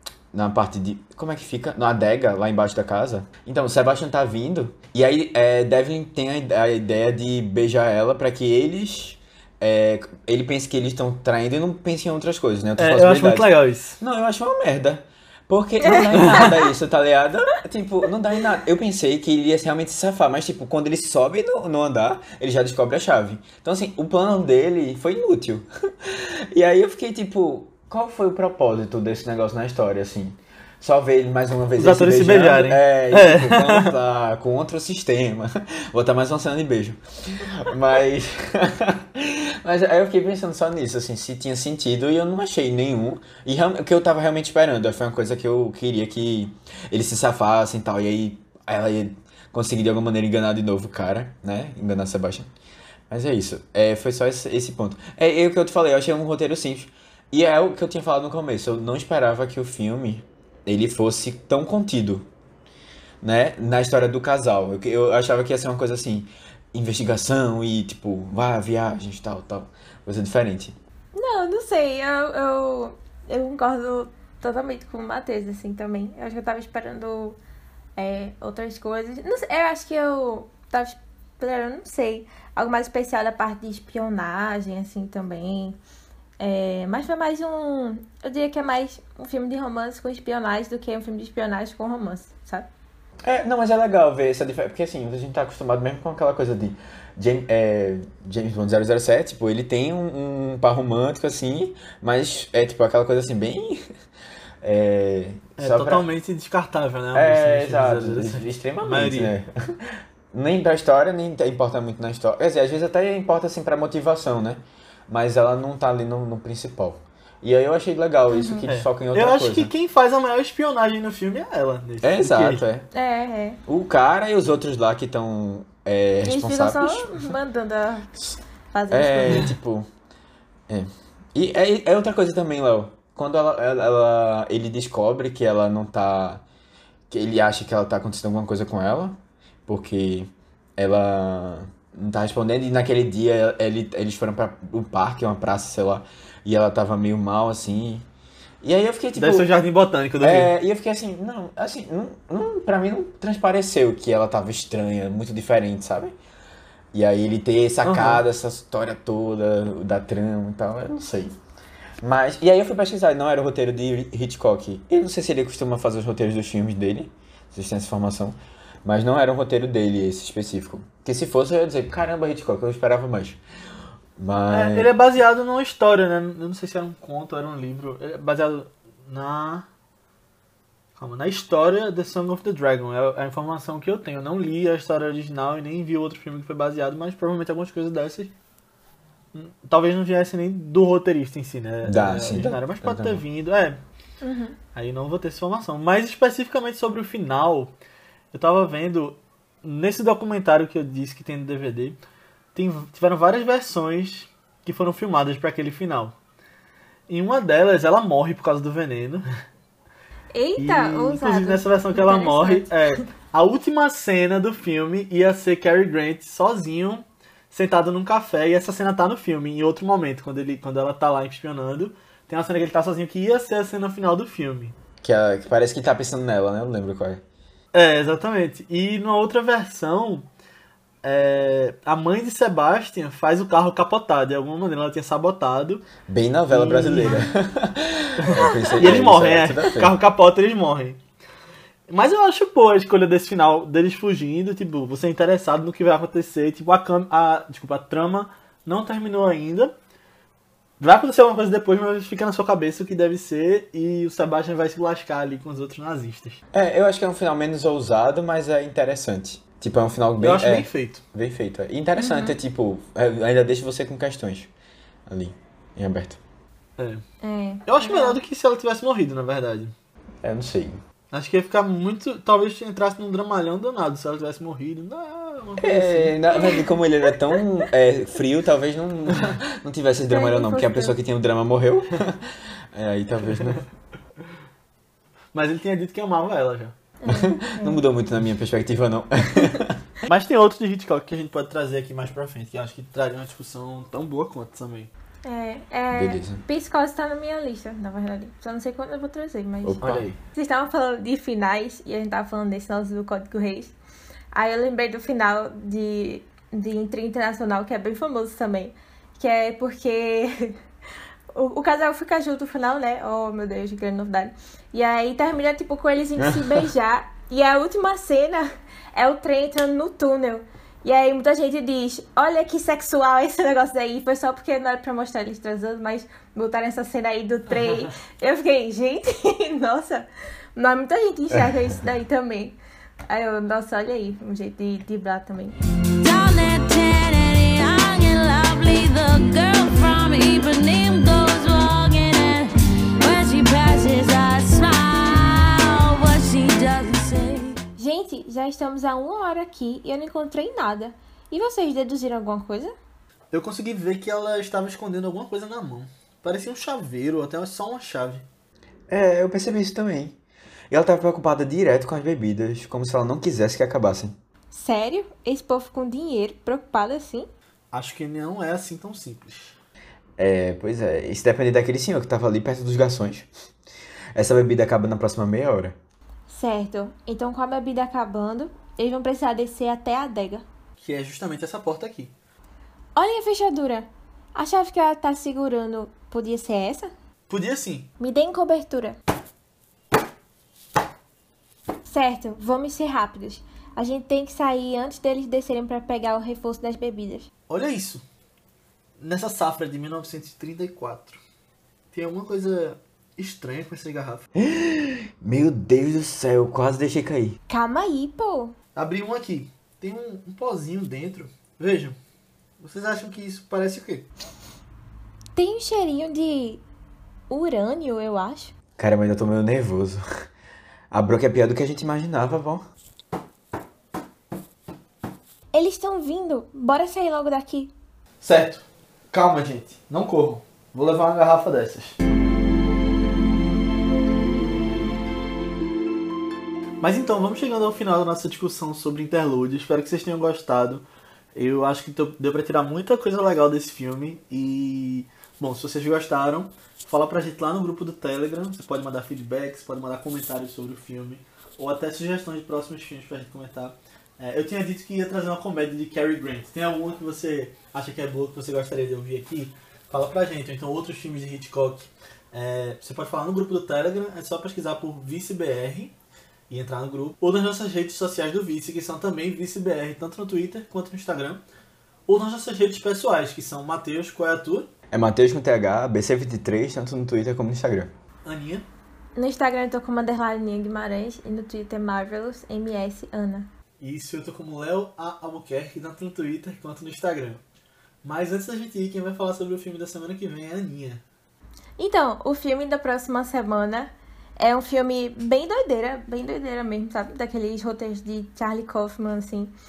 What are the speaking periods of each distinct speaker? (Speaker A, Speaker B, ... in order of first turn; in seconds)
Speaker A: 0.3-13.5, 14.0-52.5, 53.1-62.3, 63.2-70.8, 93.2-103.8, 104.6-106.0, 107.1-119.7, 122.0-122.9, 123.7-127.3, 128.9-129.9, 130.7-136.4, 137.1-148.1, 148.6-149.5, 150.2-156.2, 156.9-161.3, 162.0-173.4, 174.2-174.9, 191.8-193.2, 225.0-227.2, 236.1-240.0, 256.5-264.5, 265.1-266.2, 270.2-270.8, 275.6-283.6, 287.1-289.8, 295.9-296.4, 299.6-300.1, 316.2-316.6, 358.9-360.2, 360.7-364.1, 370.2-373.3, 374.1-375.8, 404.4-407.4, 418.8-420.1, 420.9-422.6, 474.9-477.9
Speaker B: 12.8-14.0, 16.1-16.5, 31.8-33.9, 105.6-109.3, 118.7-122.6, 149.2-150.5, 157.8-158.2, 174.5-179.7, 181.0-188.3, 189.3-193.8, 194.8-197.7, 198.3-202.0, 202.6-206.1, 207.1-209.3, 210.6-224.8, 227.7-230.2, 231.0-235.9, 236.5-237.3, 238.2-241.0, 241.9-249.7, 250.8-256.4, 260.2-261.0, 266.8-267.0, 267.7-269.7, 271.1-276.2, 285.3-286.7, 290.1-294.9, 299.8-300.2, 353.3-358.2, 367.7-369.6, 380.8-382.1, 387.3-387.9, 397.5-398.0, 399.0-401.2, 401.9-404.3, 408.8-412.0, 412.6-414.1, 428.2-432.0, 436.8-465.9, 466.5-471.4, 472.1-474.7, 478.2-478.7, 483.8-487.4, 488.0-491.0
Speaker C: 15.9-16.5, 71.2-77.4, 78.0-85.8, 86.4-92.7, 118.3-118.7, 122.9-123.6, 126.2-129.5, 194.2-194.6, 210.3-212.7, 238.4-238.8, 262.0-262.4, 267.2-268.2, 276.4-276.6, 280.1-281.0, 287.0-287.8, 295.2-303.8, 304.3-310.6, 311.4-332.6, 333.1-335.6, 347.8-352.8, 364.5-367.3, 376.3-380.4, 383.0-386.9, 388.0-389.0, 391.9-397.3, 407.5-408.6, 415.4-416.6, 417.3-418.5, 425.5-427.7, 479.2-483.5, 491.8-499.5
Speaker D: 336.0-347.6